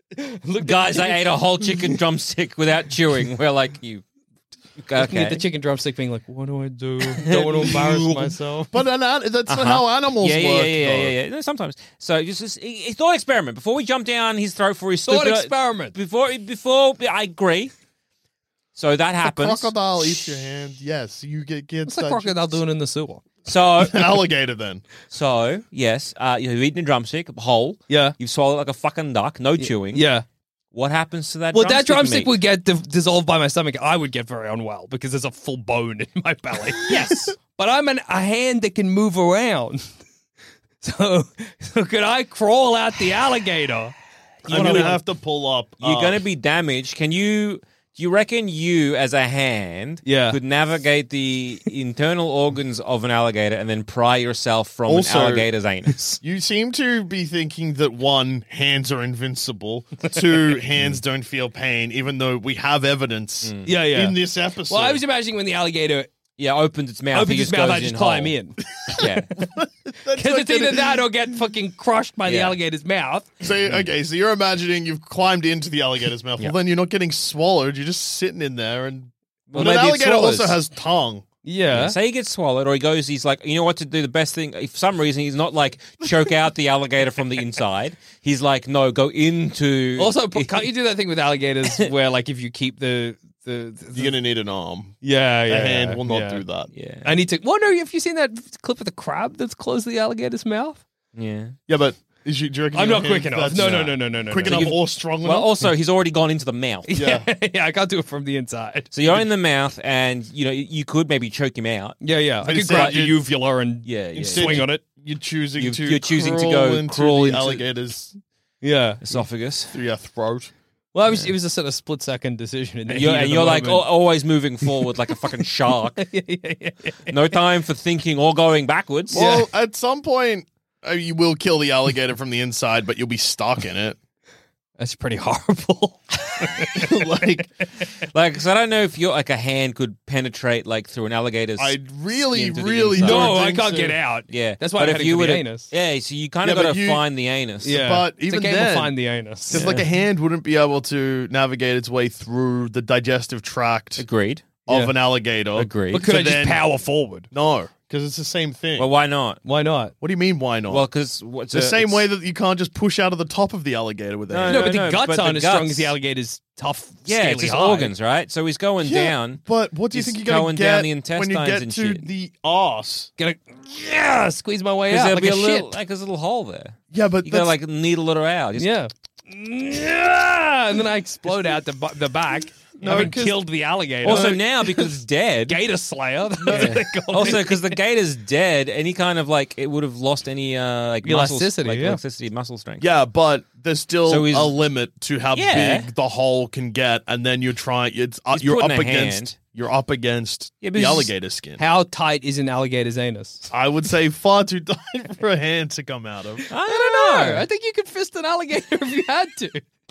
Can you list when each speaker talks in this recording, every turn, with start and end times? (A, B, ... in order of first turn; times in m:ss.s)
0:00.2-0:01.2 A
0:00.6-0:04.0 B
0:04.8-0:05.4 B
0:05.0-0:08.7 A
0:07.1-0:08.4 B
0:08.7-0:11.1 C
0:09.5-0:17.7 B
0:15.0-0:16.0 A
0:18.7-0:19.7 B
0:19.2-0:22.6 C
0:21.9-0:23.2 A
0:23.4-0:24.1 B
0:23.9-0:24.8 C
0:25.1-0:30.0 B
0:27.9-0:28.2 A
0:29.6-0:30.2 A
0:30.7-0:32.3 B
0:31.5-0:39.9 A
0:36.6-0:37.4 B
0:40.8-0:43.9 A
0:44.4-0:45.0 A
0:44.5-0:46.2 C
0:44.5-0:44.8 B
0:45.8-0:56.2 B
0:50.0-0:50.4 A
0:54.9-0:55.5 C
0:56.2-1:05.0 C
1:03.4-1:03.7 B
1:03.6-1:04.2 A
1:04.7-1:06.1 A
1:06.4-1:08.4 B
1:07.1-1:08.6 A
1:08.9-1:09.3 B
1:09.0-1:11.0 C
1:10.1-1:13.3 A
1:12.2-1:12.6 B
1:13.4-1:21.3 C
1:19.5-1:20.6 B
1:21.4-1:22.0 A
1:21.7-1:30.7 B
1:30.0-1:34.1 A
1:33.9-1:36.7 C
1:35.0-1:36.4 A
1:36.7-1:37.2 B
1:37.0-1:40.8 A
1:41.1-1:41.6 B
1:41.7-1:45.5 C
1:42.7-1:44.8 A
1:43.5-1:46.9 B
1:46.9-1:48.9 A
1:47.0-1:47.3 C
1:48.9-1:52.0 B
1:52.0-1:54.8 A
1:52.4-1:53.2 C
1:52.6-1:53.0 B
1:53.8-1:54.6 B
1:54.2-1:58.1 C
1:55.6-1:57.7 B
1:58.6-1:59.0 A
1:59.0-1:59.7 B
1:59.7-2:00.5 C
2:00.9-2:03.9 A
2:02.9-2:06.0 B
2:04.6-2:04.9 A
2:06.0-2:07.1 A
2:07.1-2:09.4 B
2:09.1-2:14.0 C
2:14.8-2:17.0 A
2:16.7-2:17.5 C
2:18.1-2:23.4 B
2:21.6-2:24.0 C
2:23.0-2:25.7 A
2:24.3-2:27.8 B
2:26.4-2:27.0 C
2:27.6-2:29.8 A
2:27.7-2:34.0 C
2:29.5-2:29.8 B
2:34.0-2:34.6 B
2:34.7-2:36.7 C
2:34.7-2:34.9 A
2:35.6-2:36.1 B
2:35.9-2:37.3 A
2:37.3-2:38.9 C
2:38.8-2:39.4 B
2:39.4-2:39.9 A
2:40.0-2:40.9 C
2:40.7-2:42.0 B
2:41.5-2:44.7 C
2:44.3-2:46.0 B
2:44.5-2:47.9 A
2:47.0-2:52.1 B
2:48.8-2:53.1 C
2:53.2-2:55.8 A
2:54.9-2:58.8 B
2:56.9-2:57.5 C
2:58.6-3:04.8 A
3:02.8-3:03.4 C
3:04.0-3:04.4 C
3:04.0-3:05.6 B
3:05.5-3:07.7 A
3:06.4-3:06.8 C
3:06.5-3:12.9 B
3:11.0-3:12.0 A
3:12.8-3:21.6 C
3:14.1-3:14.6 B
3:15.3-3:15.9 B
3:18.3-3:19.4 B
3:20.6-3:21.1 B
3:21.6-3:23.5 A
3:23.5-3:26.4 C
3:26.5-3:27.4 B
3:26.6-3:29.6 A